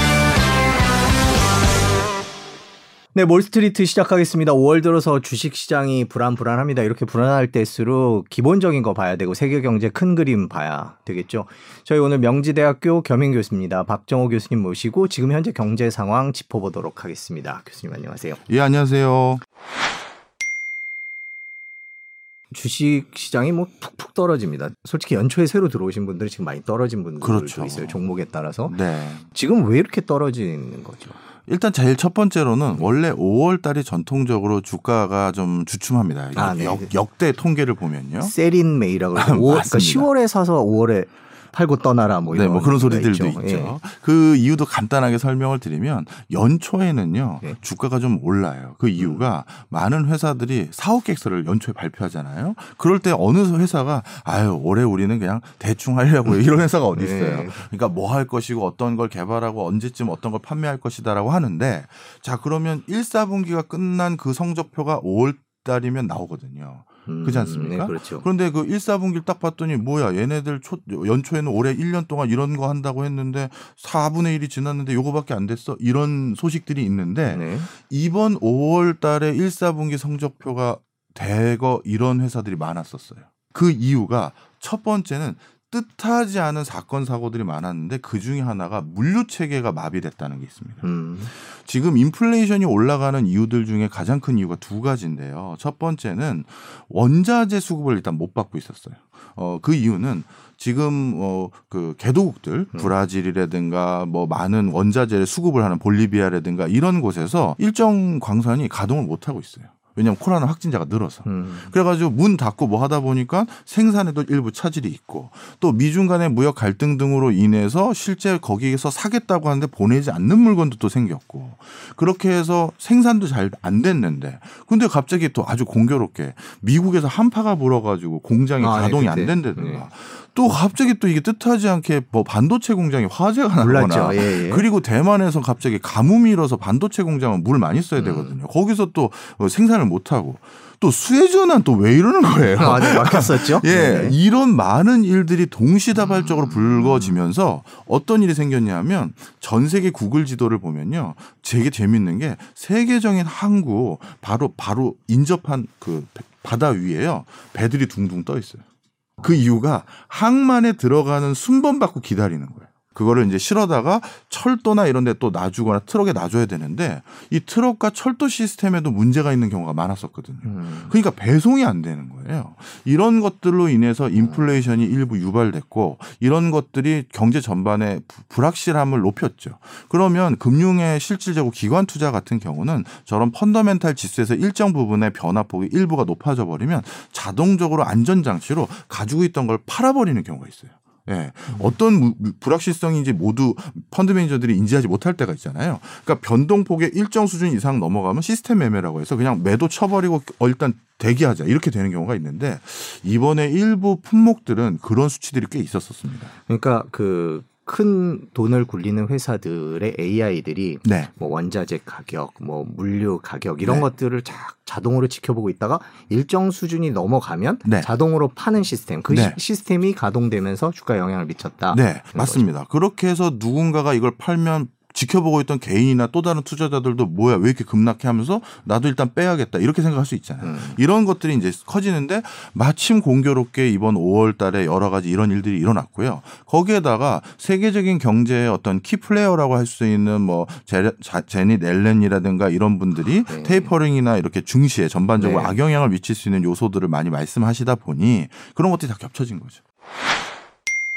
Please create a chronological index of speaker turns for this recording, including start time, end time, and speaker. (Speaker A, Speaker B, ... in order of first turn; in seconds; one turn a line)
Speaker A: 3.1-18.4
Speaker B: 18.5-19.4
Speaker A: 22.5-28.8
Speaker B: 27.2-28.0
Speaker B: 28.7-29.2
Speaker A: 29.3-31.2
Speaker B: 31.5-38.3
Speaker A: 36.3-36.9
Speaker A: 38.2-43.8
Speaker B: 39.1-40.1
Speaker B: 42.3-158.6
Speaker A: 49.0-49.2
Speaker A: 56.9-57.7
Speaker A: 67.1-68.2
Speaker A: 77.3-77.7
Speaker A: 90.8-91.3
Speaker A: 111.2-111.7
Speaker A: 128.6-129.9
Speaker A: 133.6-134.7
Speaker A: 137.9-138.4
Speaker A: 142.6-144.2
Speaker A: 146.0-147.2
Speaker B: 159.2-206.3
Speaker A: 170.4-170.9
Speaker A: 191.5-191.7
Speaker A: 206.5-222.5
Speaker B: 210.8-211.1
Speaker B: 213.6-213.9
Speaker B: 219.1-219.4
Speaker B: 221.7-249.6
Speaker A: 230.4-230.8
Speaker A: 243.2-243.7
Speaker A: 245.2-245.6